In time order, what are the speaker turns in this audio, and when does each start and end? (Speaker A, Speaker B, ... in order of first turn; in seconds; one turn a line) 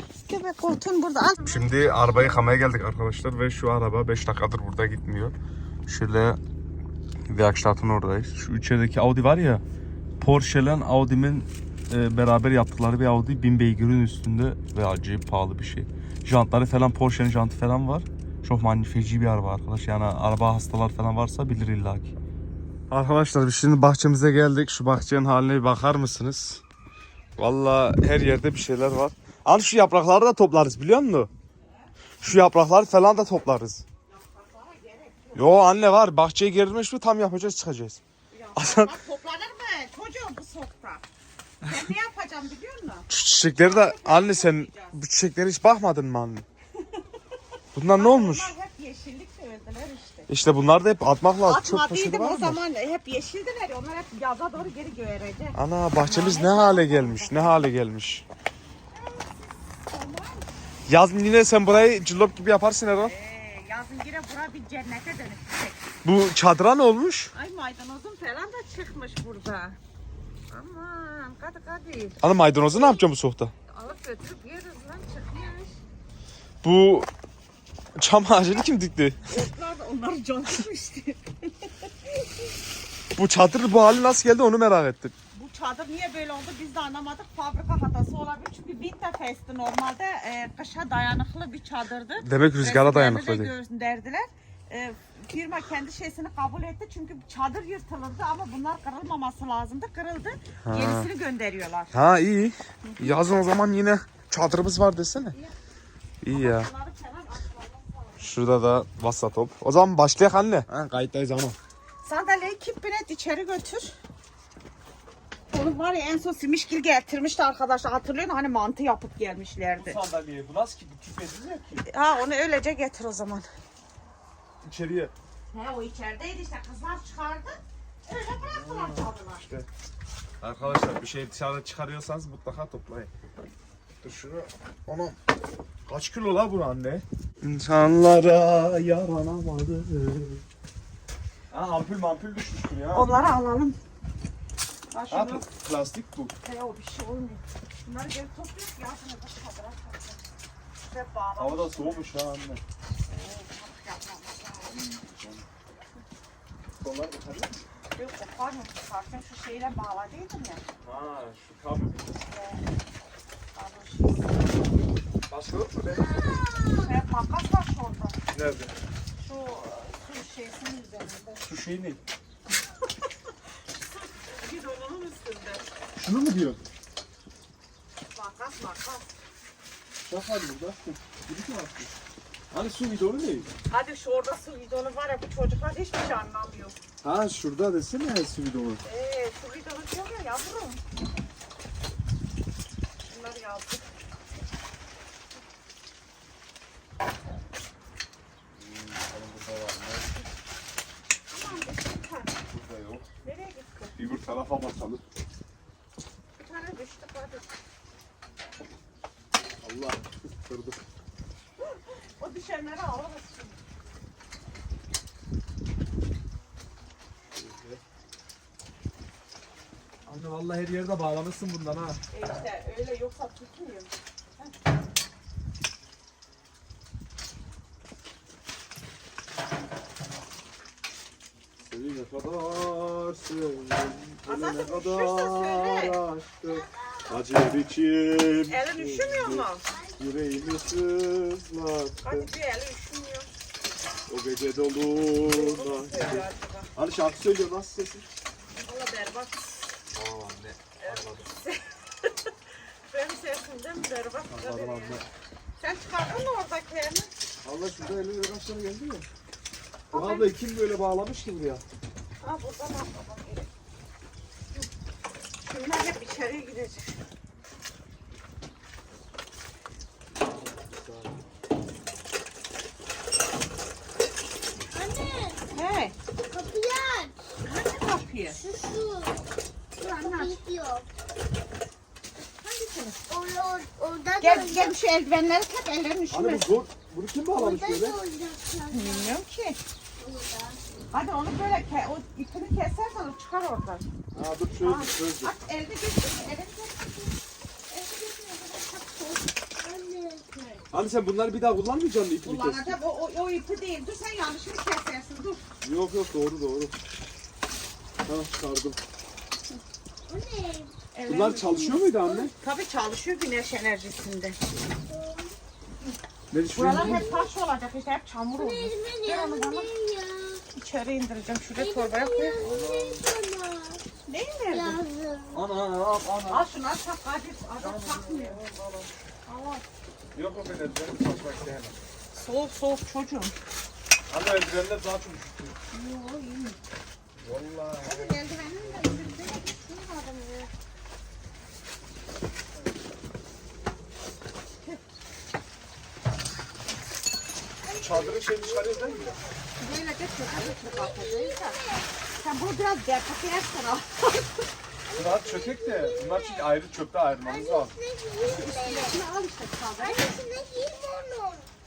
Speaker A: 0.2-1.6
Speaker B: 1.4-5.3
Speaker B: 5.9-6.4
Speaker B: 7.3-9.6
Speaker B: 10.2-22.1
Speaker B: 22.9-26.6
Speaker B: 27.4-31.3
Speaker B: 32.2-33.8
Speaker A: 34.1-35.6
Speaker B: 35.4-38.0
Speaker A: 38.3-41.0
Speaker B: 38.6-38.9
Speaker A: 41.6-45.0
Speaker B: 43.1-46.5
Speaker A: 46.8-47.0
Speaker B: 47.8-48.5
Speaker A: 47.9-50.3
Speaker B: 50.3-52.6
Speaker A: 51.5-57.6
Speaker B: 55.5-58.2
Speaker A: 58.9-60.5
Speaker B: 60.9-63.1
Speaker A: 63.0-65.9
Speaker B: 66.0-67.3
Speaker A: 67.3-69.8
Speaker A: 70.5-73.0
Speaker B: 72.2-73.5
Speaker A: 73.7-75.7
Speaker B: 76.6-77.1
Speaker B: 78.0-79.2
Speaker A: 79.3-82.2
Speaker B: 83.2-85.1
Speaker A: 85.3-101.9
Speaker B: 92.2-93.5
Speaker B: 100.6-101.1
Speaker B: 101.9-105.4
Speaker A: 102.8-103.2
Speaker B: 106.2-106.7
Speaker A: 106.3-108.4
Speaker B: 108.2-111.6
Speaker A: 112.0-114.0
Speaker A: 115.5-120.0
Speaker B: 119.8-121.8
Speaker A: 121.9-123.5
Speaker B: 124.6-125.1
Speaker A: 125.5-129.4
Speaker B: 128.4-129.7
Speaker B: 130.4-133.1
Speaker B: 134.0-135.2
Speaker B: 135.9-140.4
Speaker B: 141.5-143.1
Speaker A: 142.9-143.8
Speaker A: 144.9-145.4
Speaker B: 145.1-146.3
Speaker A: 146.4-150.2
Speaker A: 150.9-152.0
Speaker B: 151.4-152.6
Speaker A: 153.1-154.8
Speaker B: 154.7-155.5
Speaker B: 156.8-157.6
Speaker A: 157.9-160.6
Speaker B: 160.8-162.1
Speaker A: 162.3-162.7
Speaker A: 163.6-164.7
Speaker B: 165.3-166.4
Speaker C: 165.9-167.0
Speaker A: 166.8-168.2
Speaker B: 168.3-168.7
Speaker A: 169.2-171.4
Speaker B: 171.5-172.0
Speaker A: 173.7-175.6
Speaker B: 176.0-176.6
Speaker A: 178.1-179.1
Speaker B: 180.1-181.9
Speaker B: 182.5-183.5
Speaker A: 183.7-186.8
Speaker B: 187.0-188.8
Speaker A: 188.8-190.8
Speaker A: 193.1-193.9
Speaker B: 198.6-200.2
Speaker A: 201.3-202.4
Speaker B: 202.5-203.1
Speaker A: 203.2-203.9
Speaker B: 203.9-205.0
Speaker A: 206.4-207.5
Speaker B: 209.6-210.8
Speaker A: 211.6-213.6
Speaker B: 217.3-217.8
Speaker B: 220.1-222.0
Speaker A: 222.1-224.6
Speaker B: 231.6-239.5
Speaker A: 234.3-236.0
Speaker C: 236.5-237.2
Speaker A: 238.5-239.6
Speaker C: 239.7-240.6
Speaker B: 240.0-242.3
Speaker A: 242.0-243.3
Speaker B: 244.1-248.1
Speaker A: 245.3-246.7
Speaker A: 248.6-249.7
Speaker B: 249.9-251.3
Speaker A: 250.8-252.3
Speaker A: 252.9-255.0
Speaker B: 254.3-255.1
Speaker A: 255.6-257.1
Speaker B: 257.4-259.1
Speaker A: 259.9-260.3
Speaker B: 259.9-261.6
Speaker A: 262.2-263.5
Speaker A: 265.4-267.0
Speaker B: 270.2-271.2
Speaker C: 274.7-275.4
Speaker A: 275.5-276.0
Speaker C: 276.3-277.2
Speaker A: 277.4-278.4
Speaker C: 278.3-279.2
Speaker A: 279.8-280.4
Speaker C: 279.9-280.9
Speaker A: 282.4-283.0
Speaker C: 283.1-284.8
Speaker A: 284.2-286.6
Speaker B: 286.1-288.0
Speaker C: 287.3-289.1
Speaker A: 288.7-289.6
Speaker C: 290.0-290.6
Speaker A: 290.9-293.9
Speaker B: 294.1-295.3
Speaker A: 294.6-297.1
Speaker A: 297.7-299.3
Speaker C: 299.6-300.6
Speaker B: 300.7-302.8
Speaker A: 302.2-305.4
Speaker B: 305.6-306.7
Speaker B: 308.1-308.8
Speaker C: 310.1-310.8
Speaker A: 310.9-314.4
Speaker B: 311.1-312.3
Speaker C: 314.7-315.4
Speaker B: 316.3-317.1
Speaker A: 316.6-319.7
Speaker C: 316.6-317.3
Speaker C: 318.4-320.4
Speaker A: 320.5-322.4
Speaker C: 321.6-323.8
Speaker B: 322.4-323.0
Speaker A: 324.1-324.8
Speaker C: 324.5-325.4
Speaker B: 325.3-326.5
Speaker A: 326.3-328.4
Speaker B: 327.6-329.0
Speaker A: 329.3-329.6
Speaker B: 330.1-331.8
Speaker A: 332.1-333.4
Speaker B: 334.1-335.6
Speaker A: 335.7-336.6
Speaker B: 337.2-339.1
Speaker A: 337.8-340.5
Speaker C: 338.6-339.1
Speaker C: 347.6-349.3
Speaker B: 347.8-349.2
Speaker A: 349.6-351.6
Speaker C: 350.3-351.9
Speaker A: 352.2-354.4
Speaker C: 354.9-356.6
Speaker B: 354.9-357.7
Speaker C: 357.2-359.0
Speaker A: 358.2-360.0
Speaker C: 359.8-361.5